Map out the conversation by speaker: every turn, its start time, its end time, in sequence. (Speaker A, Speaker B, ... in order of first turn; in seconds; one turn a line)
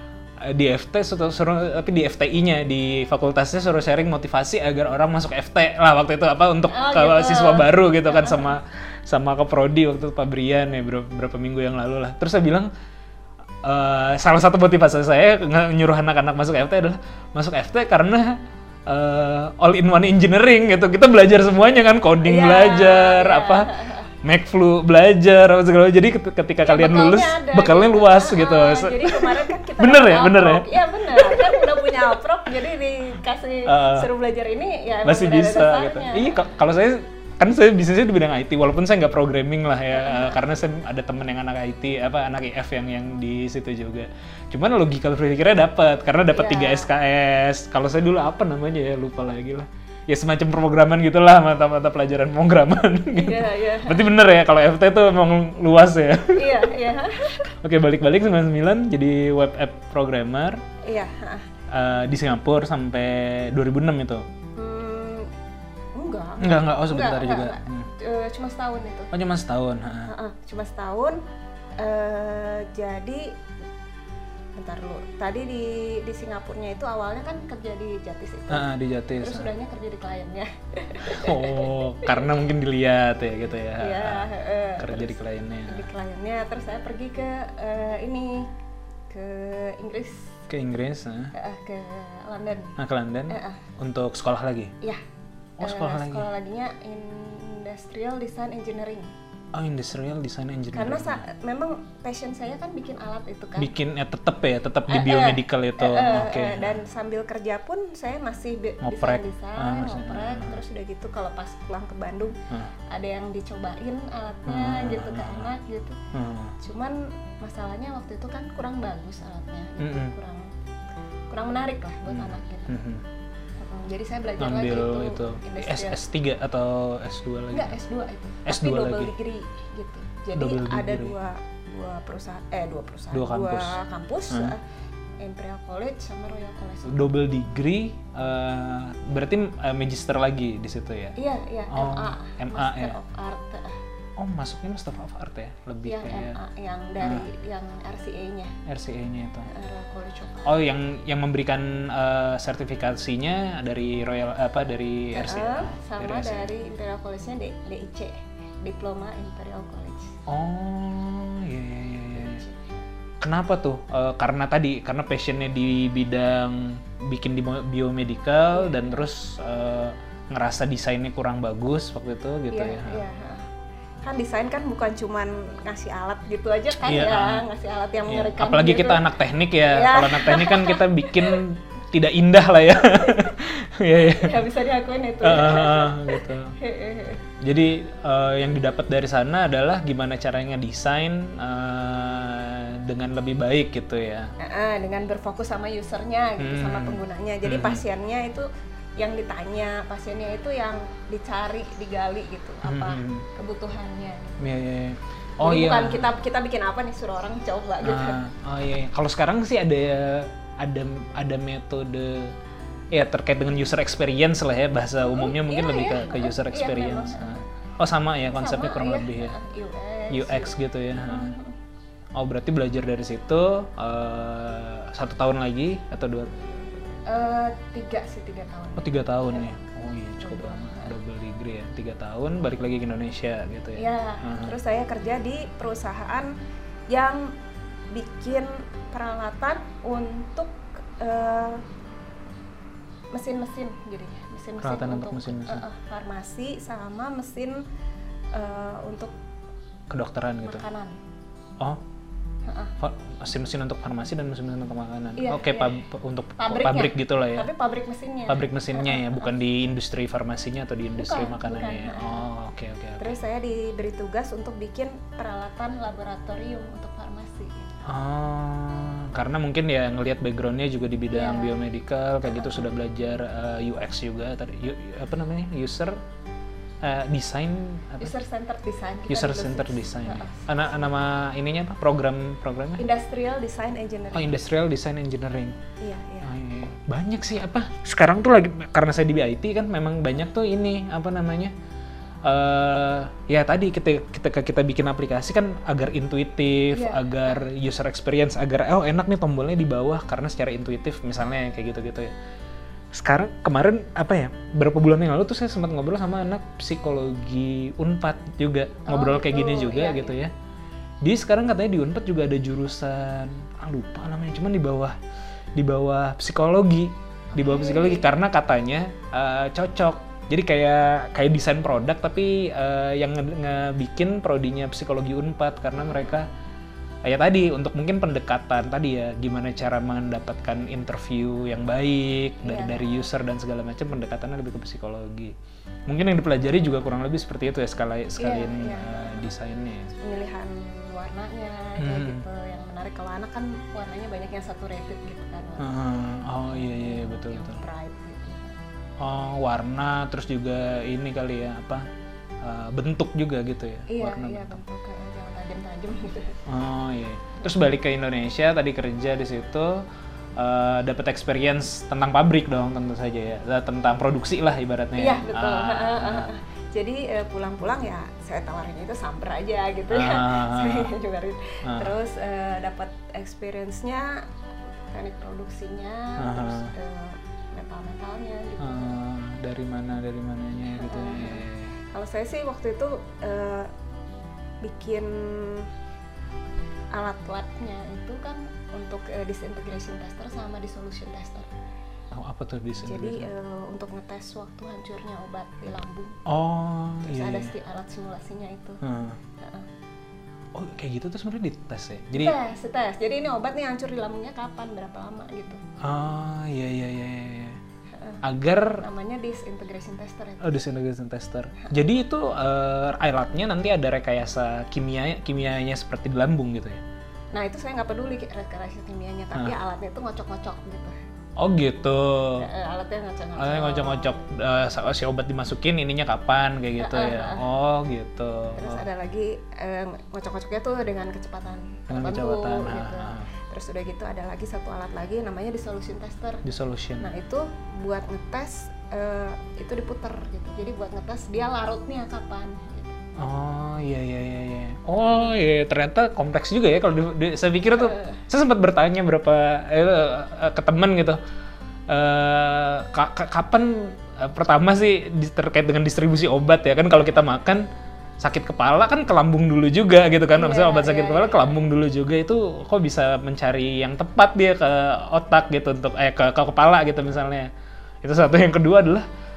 Speaker A: 0.4-12.7
Speaker B: 6.7-8.6
Speaker A: 13.6-32.2
Speaker B: 22.2-24.1
Speaker B: 26.6-36.4
Speaker A: 33.7-34.1
Speaker A: 35.0-56.7
Speaker B: 39.9-40.4
Speaker B: 46.3-46.9
Speaker B: 53.1-54.0
Speaker B: 56.3-57.5
Speaker A: 57.6-60.6
Speaker B: 60.8-61.5
Speaker A: 61.7-64.2
Speaker B: 64.6-65.3
Speaker B: 66.0-69.1
Speaker A: 66.4-67.9
Speaker A: 69.1-70.1
Speaker B: 70.1-71.2
Speaker B: 71.8-73.3
Speaker B: 74.6-82.4
Speaker A: 78.5-79.5
Speaker A: 81.0-85.9
Speaker B: 83.8-88.5
Speaker B: 89.1-90.4
Speaker A: 90.5-91.3
Speaker B: 91.3-92.8
Speaker A: 92.8-94.7
Speaker B: 93.3-93.7
Speaker A: 95.6-96.3
Speaker B: 95.6-99.1
Speaker A: 99.5-101.2
Speaker B: 100.7-103.7
Speaker A: 103.6-106.8
Speaker B: 104.9-112.4
Speaker A: 108.8-110.6
Speaker B: 112.9-116.0
Speaker A: 114.5-115.5
Speaker A: 116.1-116.5
Speaker B: 116.6-120.5
Speaker A: 119.8-120.2
Speaker B: 121.3-122.8
Speaker A: 122.1-123.0
Speaker B: 123.6-126.0
Speaker A: 124.4-127.8
Speaker B: 127.5-134.6
Speaker A: 128.4-129.1
Speaker A: 130.3-131.2
Speaker A: 133.1-133.8
Speaker A: 134.3-134.5
Speaker B: 135.2-137.1
Speaker A: 136.8-141.2
Speaker B: 141.2-143.8
Speaker A: 141.7-143.0
Speaker A: 144.2-146.4
Speaker B: 145.8-148.6
Speaker A: 147.0-147.3
Speaker A: 148.7-149.5
Speaker B: 149.5-150.6
Speaker A: 150.4-156.5
Speaker B: 155.1-160.2
Speaker A: 160.3-162.4
Speaker B: 162.1-162.8
Speaker A: 163.2-173.0
Speaker B: 168.5-169.0
Speaker B: 172.5-173.5
Speaker B: 174.0-179.1
Speaker A: 176.7-177.5
Speaker A: 178.1-184.5
Speaker B: 179.6-181.4
Speaker B: 183.0-183.3
Speaker B: 183.9-187.3
Speaker A: 185.2-186.6
Speaker A: 187.4-194.3
Speaker B: 194.4-198.5
Speaker A: 196.4-197.8
Speaker B: 199.0-204.4
Speaker A: 202.6-203.3
Speaker A: 204.4-206.1
Speaker B: 205.4-208.2
Speaker A: 207.8-212.3
Speaker A: 212.9-219.4
Speaker B: 215.0-217.5
Speaker B: 218.3-221.6
Speaker A: 220.1-221.4
Speaker A: 222.2-226.6
Speaker B: 227.1-229.6
Speaker A: 228.8-234.6
Speaker B: 230.2-230.9
Speaker B: 233.8-236.3
Speaker B: 236.9-237.3
Speaker B: 237.9-241.6
Speaker B: 243.1-247.6
Speaker A: 244.6-245.7
Speaker B: 248.3-249.1
Speaker A: 249.9-250.6
Speaker B: 250.4-251.0
Speaker B: 252.5-252.7
Speaker A: 252.8-257.5
Speaker B: 255.2-255.9
Speaker B: 256.4-259.3
Speaker A: 258.3-263.2
Speaker B: 260.9-262.3
Speaker B: 263.0-267.8
Speaker A: 267.9-276.0
Speaker B: 271.1-271.6
Speaker B: 272.2-272.8
Speaker A: 276.8-278.1
Speaker B: 278.0-280.9
Speaker A: 279.1-282.8
Speaker B: 282.8-284.4
Speaker A: 284.1-285.6
Speaker B: 285.8-286.4
Speaker A: 286.2-291.5
Speaker A: 292.2-302.1
Speaker B: 296.7-297.5
Speaker A: 302.9-310.3
Speaker B: 308.9-310.2
Speaker A: 311.0-315.0
Speaker A: 315.6-326.3
Speaker B: 317.3-318.1
Speaker A: 327.0-335.3
Speaker B: 332.4-333.1
Speaker A: 335.9-339.9
Speaker B: 338.2-339.3
Speaker B: 340.0-345.8
Speaker A: 341.8-342.2
Speaker A: 345.6-347.6
Speaker B: 346.4-348.6
Speaker A: 349.0-351.9
Speaker A: 352.4-354.6
Speaker B: 353.9-356.4
Speaker A: 356.5-359.8
Speaker A: 360.4-366.3
Speaker B: 365.0-374.2
Speaker A: 369.9-370.9
Speaker A: 371.6-371.9
Speaker B: 374.9-379.0
Speaker A: 376.2-376.7
Speaker A: 378.6-381.7
Speaker B: 380.7-383.7
Speaker B: 384.6-385.7
Speaker B: 386.9-391.5
Speaker A: 392.1-393.3
Speaker B: 392.9-396.2
Speaker A: 396.3-397.5
Speaker B: 397.0-398.8
Speaker A: 398.8-399.2
Speaker B: 399.4-399.7
Speaker A: 400.5-402.4
Speaker B: 402.1-405.6
Speaker A: 405.8-407.6
Speaker B: 407.9-410.6
Speaker A: 408.2-408.8
Speaker A: 410.4-416.8
Speaker B: 417.3-420.9
Speaker A: 421.4-422.5
Speaker B: 422.4-424.2
Speaker A: 423.4-428.9
Speaker B: 426.8-427.5
Speaker B: 428.6-436.4
Speaker A: 431.9-433.3
Speaker A: 436.4-437.1
Speaker B: 437.0-443.0
Speaker A: 443.2-451.2
Speaker B: 447.7-448.2
Speaker A: 451.9-457.7
Speaker A: 458.2-467.5
Speaker B: 460.4-461.6
Speaker A: 468.0-469.1